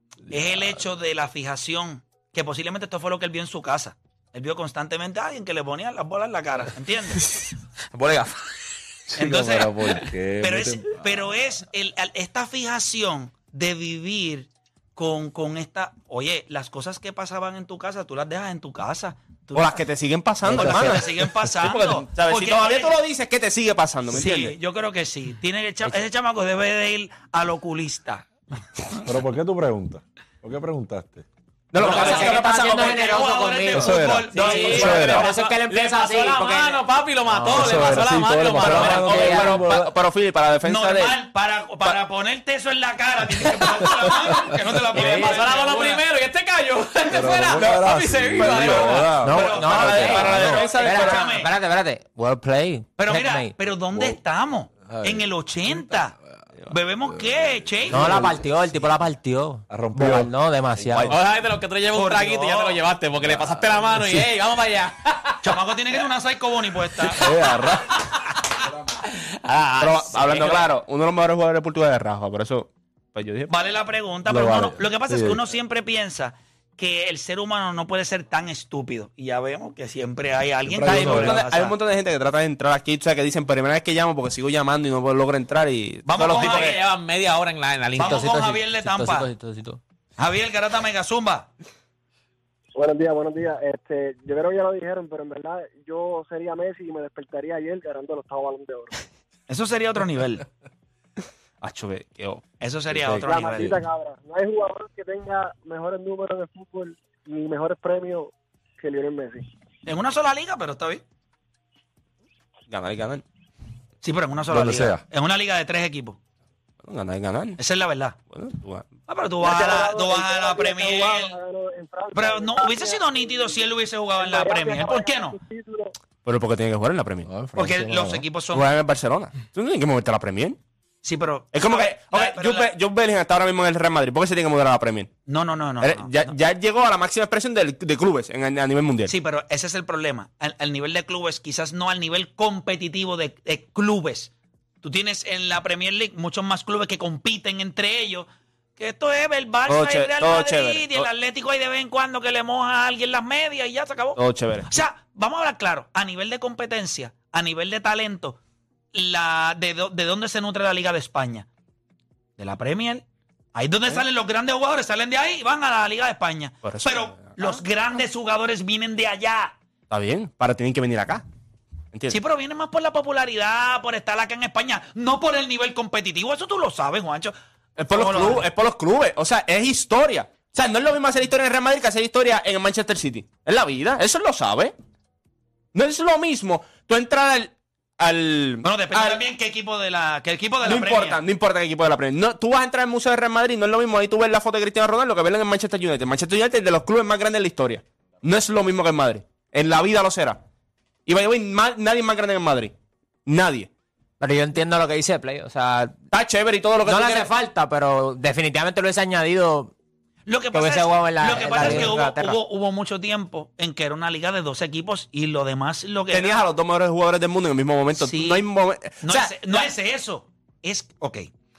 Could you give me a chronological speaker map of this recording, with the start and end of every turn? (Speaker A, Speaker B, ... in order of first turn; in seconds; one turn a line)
Speaker A: 0.3-0.8
Speaker B: 0.3-7.2
Speaker C: 8.0-8.2
Speaker A: 9.1-11.3
Speaker B: 9.2-9.9
Speaker B: 10.4-19.8
Speaker D: 19.5-24.6
Speaker A: 20.4-21.5
Speaker B: 20.5-23.0
Speaker B: 24.1-29.0
Speaker A: 29.1-31.3
Speaker D: 31.7-33.3
Speaker E: 31.8-38.0
Speaker B: 31.8-35.3
Speaker A: 33.7-35.3
Speaker C: 34.4-39.4
Speaker A: 37.3-39.9
Speaker D: 38.6-41.2
Speaker E: 38.8-39.6
Speaker B: 40.6-46.0
Speaker C: 44.9-49.2
Speaker E: 45.0-45.4
Speaker A: 47.1-50.2
Speaker B: 48.6-51.5
Speaker E: 49.2-53.5
Speaker D: 49.5-51.5
Speaker B: 53.0-56.1
Speaker A: 53.8-54.2
Speaker A: 54.8-56.5
Speaker B: 56.7-58.2
Speaker A: 57.0-58.7
Speaker E: 57.9-61.2
Speaker A: 59.7-60.3
Speaker C: 61.1-65.6
Speaker B: 61.9-62.8
Speaker A: 63.2-64.3
Speaker B: 65.4-67.3
Speaker C: 67.0-67.3
Speaker A: 67.1-68.0
Speaker C: 67.9-68.3
Speaker C: 69.0-70.7
Speaker D: 69.8-73.5
Speaker B: 73.5-81.8
Speaker A: 74.3-75.5
Speaker A: 80.7-81.5
Speaker D: 80.8-86.8
Speaker B: 86.0-86.8
Speaker C: 86.3-88.4
Speaker E: 88.0-89.8
Speaker B: 88.0-89.3
Speaker B: 90.2-91.5
Speaker F: 92.8-99.0
Speaker B: 99.5-100.5
Speaker D: 101.6-102.5
Speaker B: 102.6-103.8
Speaker A: 102.9-103.8
Speaker F: 103.2-109.5
Speaker B: 109.9-111.0
Speaker D: 112.7-113.2
Speaker B: 114.0-116.2
Speaker A: 114.5-115.0
Speaker D: 116.8-117.6
Speaker B: 117.6-118.2
Speaker D: 118.3-118.9
Speaker B: 119.1-121.4
Speaker F: 119.4-126.0
Speaker B: 122.1-125.4
Speaker D: 126.2-127.4
Speaker A: 127.3-128.3
Speaker B: 127.5-128.7
Speaker D: 128.5-130.6
Speaker B: 131.0-132.7
Speaker D: 131.5-135.2
Speaker B: 135.3-136.3
Speaker D: 135.8-139.2
Speaker B: 139.1-158.4
Speaker D: 149.7-151.1
Speaker D: 154.2-154.8
Speaker B: 158.9-161.5
Speaker B: 162.4-169.6
Speaker D: 166.6-167.6
Speaker D: 169.9-171.3
Speaker D: 171.9-172.2
Speaker B: 172.1-177.3
Speaker D: 177.8-184.7
Speaker B: 177.9-178.5
Speaker D: 185.7-189.3
Speaker B: 188.6-191.2
Speaker D: 190.6-200.4
Speaker D: 201.1-202.7
Speaker D: 203.3-203.7
Speaker E: 204.2-206.0
Speaker D: 206.1-207.3
Speaker E: 206.8-209.7
Speaker B: 210.3-216.4
Speaker E: 210.5-212.4
Speaker D: 211.3-212.0
Speaker D: 216.1-219.7
Speaker B: 218.0-218.5
Speaker B: 219.0-221.3